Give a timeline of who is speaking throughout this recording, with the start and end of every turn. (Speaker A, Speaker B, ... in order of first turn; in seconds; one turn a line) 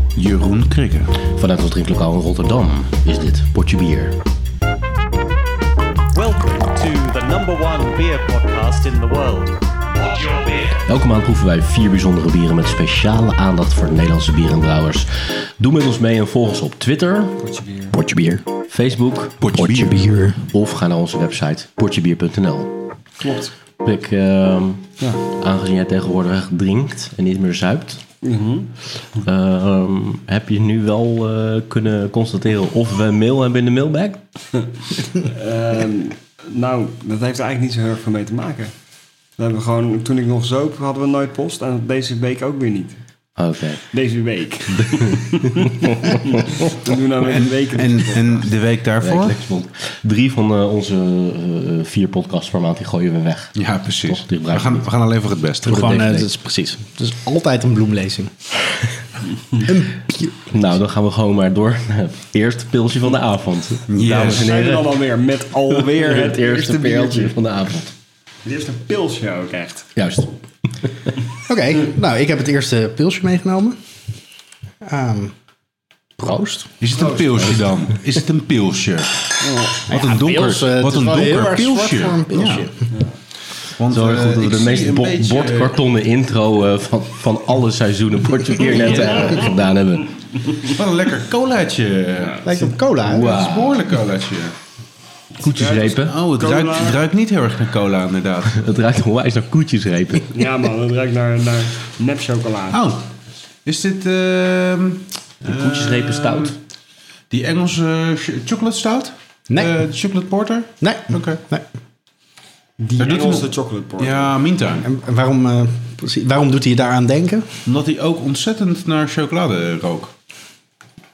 Speaker A: 0.2-1.1
Speaker B: 1.4-4.2
Speaker C: 6.1-10.8
Speaker B: 10.9-17.4
Speaker D: 17.4-18.0
Speaker E: 17.9-18.4
Speaker B: 18.7-22.8
Speaker A: 19.4-19.9
Speaker E: 19.5-20.4
Speaker D: 23.2-23.5
Speaker B: 23.8-28.0
Speaker D: 28.2-28.7
Speaker B: 29.2-34.2
Speaker D: 35.2-38.7
Speaker D: 39.4-43.0
Speaker B: 43.4-43.8
Speaker D: 43.9-48.5
Speaker B: 45.0-46.1
Speaker A: 47.2-49.4
Speaker B: 49.0-53.5
Speaker A: 53.6-55.9
Speaker B: 54.1-54.9
Speaker E: 55.6-58.3
Speaker B: 55.7-56.3
Speaker E: 59.6-60.5
Speaker B: 60.5-65.0
Speaker A: 63.9-64.5
Speaker D: 64.1-67.3
Speaker B: 65.8-67.9
Speaker D: 68.5-69.9
Speaker B: 70.0-70.3
Speaker E: 71.5-73.8
Speaker E: 74.8-75.3
Speaker E: 76.2-76.7
Speaker A: 76.8-82.7
Speaker D: 77.0-77.4
Speaker D: 79.4-79.8
Speaker E: 79.9-82.9
Speaker A: 83.8-85.8
Speaker B: 83.9-90.1
Speaker A: 90.6-94.5
Speaker D: 92.2-92.5
Speaker E: 92.4-93.4
Speaker B: 93.1-93.8
Speaker B: 95.4-96.1
Speaker D: 95.5-97.0
Speaker A: 95.9-98.6
Speaker B: 98.5-100.3
Speaker D: 100.3-102.8
Speaker A: 102.7-103.0
Speaker A: 103.7-106.6
Speaker B: 105.5-106.5
Speaker A: 107.3-111.4
Speaker E: 110.8-111.7
Speaker D: 112.8-114.4
Speaker A: 113.0-113.5
Speaker A: 114.0-114.9
Speaker E: 114.8-117.5
Speaker A: 117.7-120.1